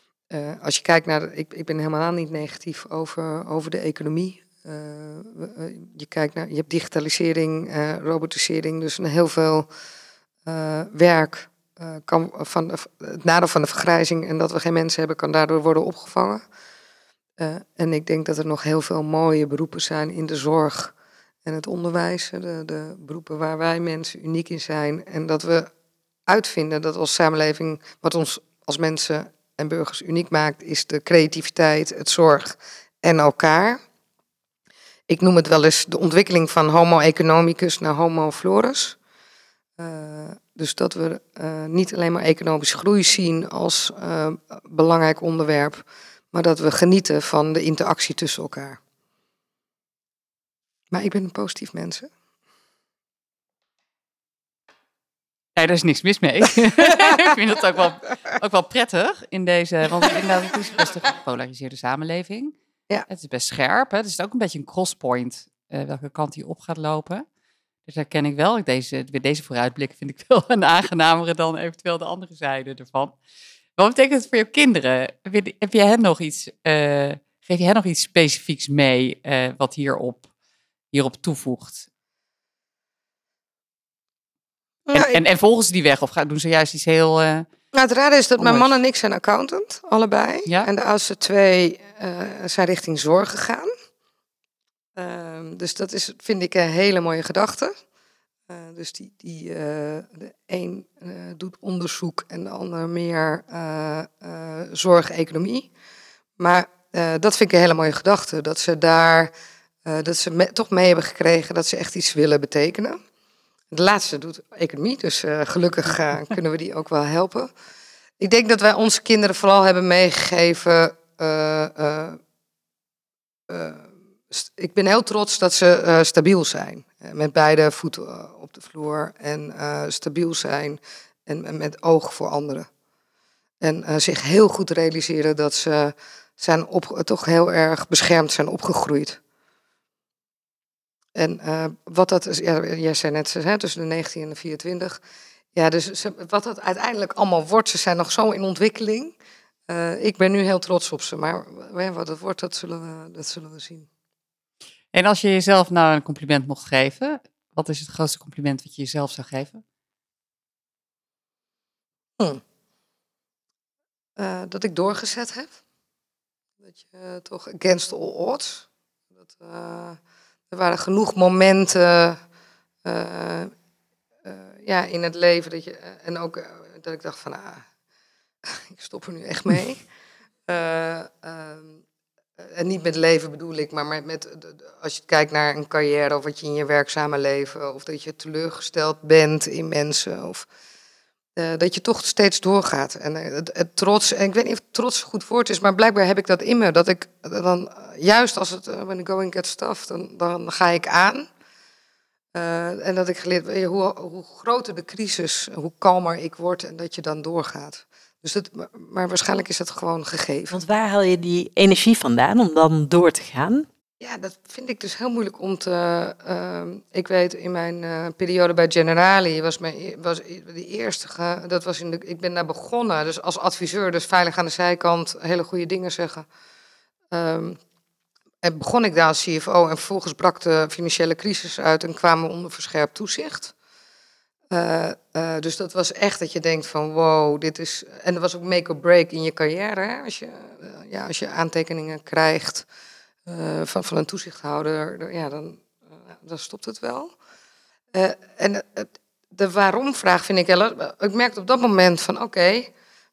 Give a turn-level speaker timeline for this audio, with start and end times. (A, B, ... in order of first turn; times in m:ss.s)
0:00.3-0:09.7 A
0:10.4-0:16.4 A
0:17.4-0:20.9 A
0:21.4-0:25.7 A
0:26.3-0:33.8 A
0:35.1-0:39.0 A
0:39.8-0:48.8 A
0:50.9-0:52.1 A
0:55.6-1:02.5 B
1:03.1-1:07.2 B
1:07.8-1:13.2 B
1:13.8-1:20.3 B
1:20.9-1:21.9 B
1:24.9-1:25.2 A
1:24.9-1:27.5 B
1:27.7-1:33.7 A
1:28.4-1:28.8 B
1:35.0-1:37.7 A
1:38.5-1:45.7 A
1:46.4-1:49.3 A
1:49.8-1:53.0 A
1:53.7-1:57.5 A
1:58.2-2:02.2 A
2:03.5-2:12.7 A
2:13.6-2:19.2 A
2:21.2-2:25.0 A
2:25.5-2:29.1 A
2:29.7-2:33.9 A
2:34.9-2:39.6 B
2:44.2-2:45.6 A
2:46.6-2:48.6 A
2:49.2-2:50.0 A
2:50.5-2:52.2 A
2:52.8-2:53.5 A
2:54.2-2:57.6 A
2:58.4-2:59.8 A
3:00.5-3:01.8 A
3:02.4-3:10.4 A
3:11.4-3:21.3 A
3:22.3-3:30.6 A
3:30.5-3:33.7 C
3:34.0-3:46.2 A
3:47.1-3:47.6 A
3:48.4-3:53.5 A
3:54.5-4:02.6 A
4:03.2-4:07.1 A
4:07.9-4:12.7 A